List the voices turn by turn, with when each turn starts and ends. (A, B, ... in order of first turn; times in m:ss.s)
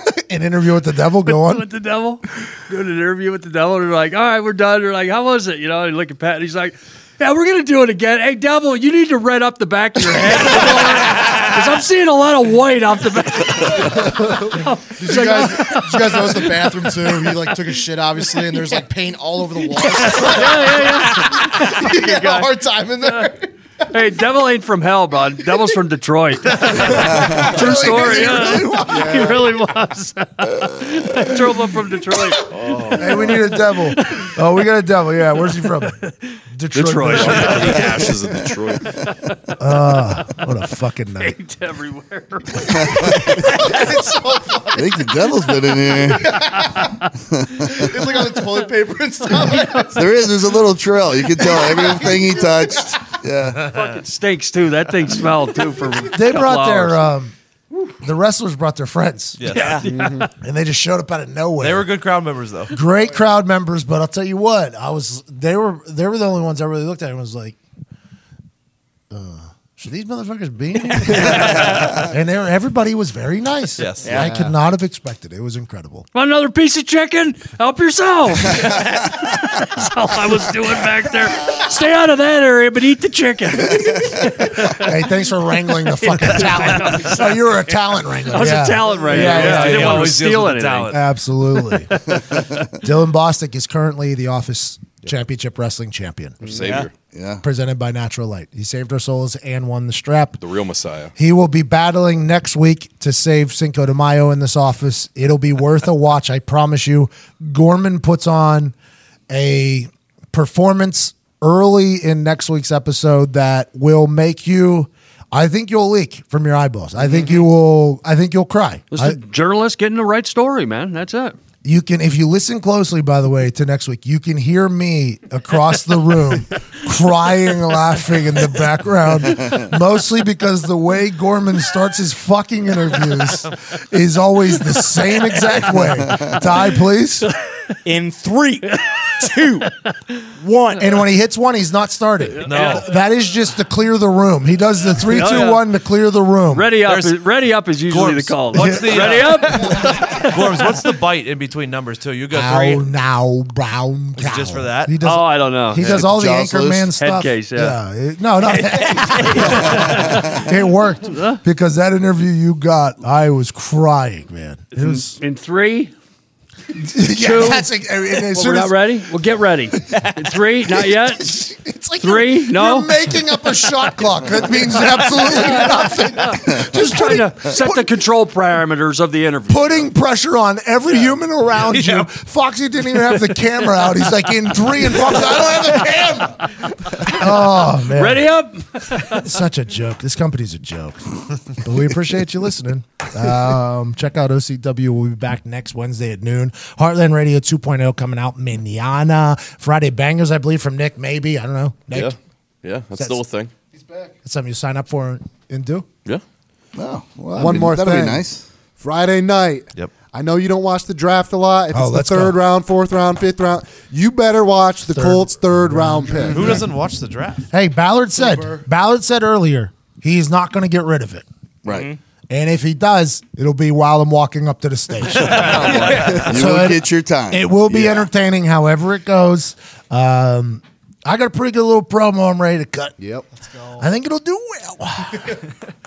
0:00.3-0:01.7 A
0:01.2-0:17.4 B
0:10.4-0:11.2 C
0:15.0-0:23.5 C
0:20.0-0:22.5 B
0:23.9-0:34.3 B
0:27.0-0:29.2 D
0:27.0-0:29.4 C
0:32.5-0:33.2 E
0:32.9-0:36.0 A
0:36.0-0:38.2 B
0:36.5-0:37.7 A
0:37.1-0:38.9 E
0:38.8-0:40.4 B
0:39.6-0:41.3 A
0:41.2-0:44.0 B
0:42.7-0:43.2 D
0:43.0-0:46.9 C
0:44.7-0:46.3 D
0:46.4-0:47.0 B
0:47.3-0:47.9 D
0:47.6-0:50.3 C
0:49.9-0:53.7 D
0:51.2-0:53.0 C
0:53.7-0:57.1 B
0:56.1-0:57.3 A
0:58.0-0:59.4 A
0:59.4-0:59.8 F
0:59.4-1:00.3 B
0:59.5-0:59.9 G
0:59.9-1:00.3 H
1:00.4-1:01.9 A
1:01.6-1:02.7 F
1:02.7-1:07.6 A
1:09.1-1:16.0 A
1:13.8-1:14.5 F
1:14.0-1:14.3 G
1:16.1-1:27.4 B
1:24.7-1:30.1 A
1:26.8-1:27.2 F
1:28.2-1:31.0 B
1:29.0-1:31.0 F
1:30.9-1:32.0 A
1:31.5-1:32.6 B
1:32.8-1:36.5 A
1:36.4-1:36.9 E
1:36.6-1:36.9 G
1:37.0-1:37.4 D
1:37.4-1:40.4 A
1:40.4-1:41.1 E
1:41.1-1:48.7 A
1:49.3-1:59.2 A
1:58.9-2:01.4 B
2:01.6-2:17.3 A
2:17.8-2:19.7 G
2:18.7-2:19.9 B
2:20.4-2:21.0 G
2:20.8-2:26.7 A
2:22.4-2:22.9 B
2:22.4-2:22.8 F
2:25.0-2:25.7 B
2:26.5-2:30.6 B
2:26.8-2:27.2 F
2:27.8-2:32.8 F
2:28.5-2:29.6 A
2:32.3-2:45.2 A
2:34.2-2:34.9 F
2:35.0-2:35.9 B
2:35.7-2:36.9 D
2:37.0-2:37.8 B
2:38.8-2:39.6 G
2:39.1-2:40.5 B
2:41.0-2:41.4 B
2:44.7-2:45.9 B
2:46.8-2:48.8 A
2:47.1-2:47.7 B
2:48.3-2:51.5 B
2:51.2-2:57.9 A
2:52.0-2:53.2 B
2:55.4-2:55.7 B
2:56.3-2:59.9 B
2:59.5-3:08.3 A
3:01.6-3:02.1 F
3:07.0-3:09.3 B
3:09.0-3:22.1 A
3:21.9-3:23.5 E
3:22.9-3:23.2 A
3:23.7-3:24.1 C
3:24.2-3:25.9 A
3:26.7-3:28.4 D
3:27.4-3:28.2 A
3:27.4-3:28.2 H
3:28.8-3:36.6 H
3:31.7-3:32.4 A
3:34.9-3:36.6 A
3:36.3-3:37.5 F
3:37.5-3:41.2 A
3:38.2-3:38.6 C
3:41.6-3:41.9 D
3:41.7-3:42.0 G
3:42.3-3:53.0 A
3:45.1-3:46.3 F
3:45.6-3:46.5 E
3:46.1-3:48.0 D
3:53.0-3:53.2 H
3:53.3-3:53.9 C
3:53.8-3:55.4 A